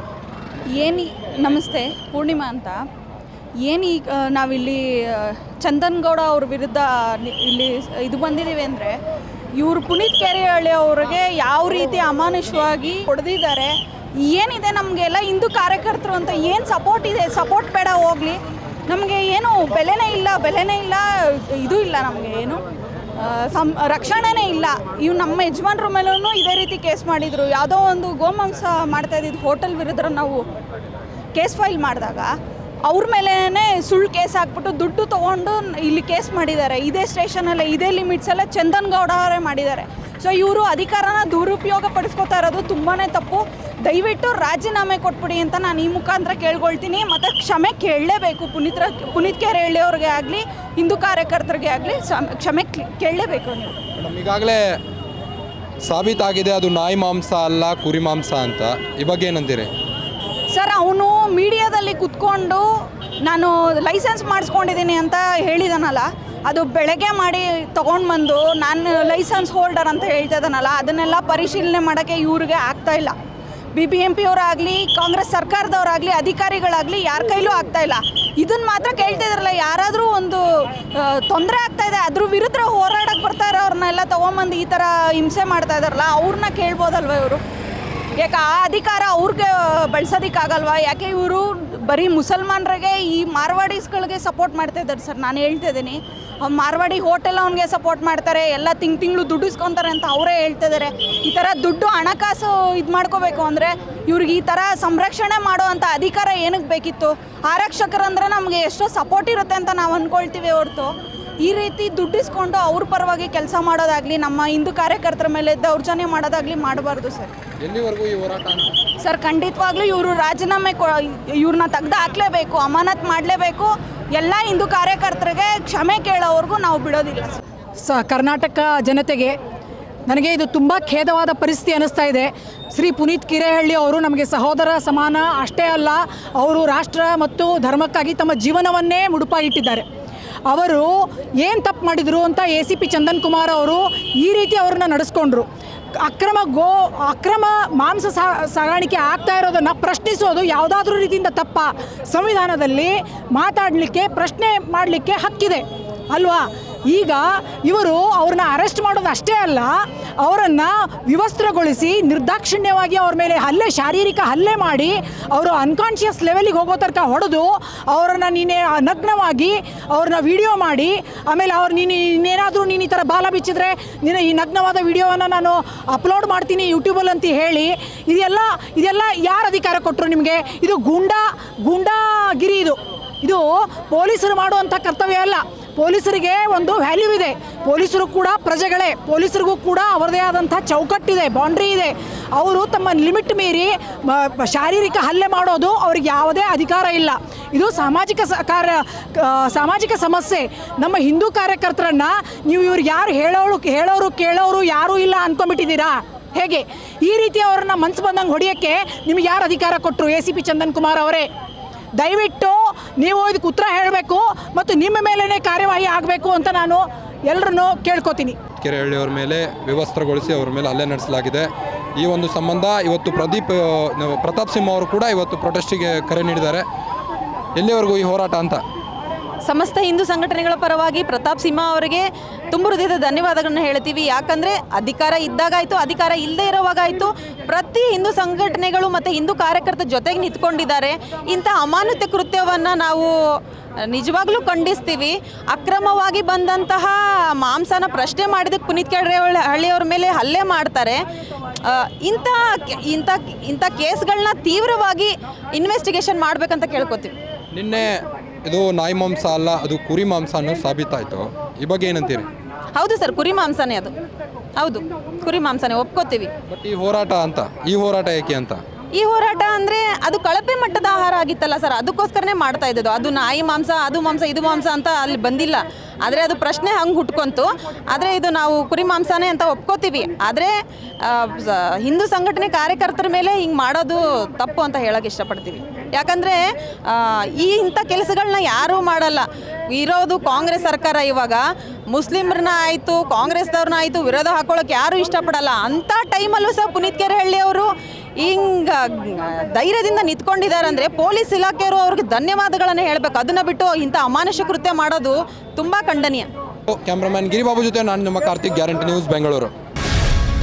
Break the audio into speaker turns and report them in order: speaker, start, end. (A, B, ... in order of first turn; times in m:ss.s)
0:00.7-0:02.8 A
0:03.6-0:09.0 A
0:09.6-0:22.6 A
0:23.2-0:30.4 A
0:31.3-0:32.3 A
0:32.8-0:53.8 A
0:54.0-0:54.6 B
0:55.8-0:59.7 B
1:00.5-1:02.6 A
1:03.2-1:13.1 A
1:13.7-1:27.4 A
1:28.2-1:57.3 A
1:57.6-1:58.7 B
1:59.0-2:07.4 A
2:07.8-2:09.3 C
2:10.1-2:19.8 C
2:20.5-2:25.4 C
2:26.0-3:31.3 C
3:32.0-3:38.4 C
3:38.6-3:46.6 B
3:47.6-3:48.6 B
3:49.4-4:03.1 D
4:03.9-4:11.0 D
4:11.7-4:17.1 D
4:17.5-4:22.2 B
4:22.7-4:23.9 D
4:24.6-4:26.3 D
4:26.5-4:28.6 B
4:28.9-4:40.5 D
4:41.0-5:06.3 D
5:06.7-5:09.5 B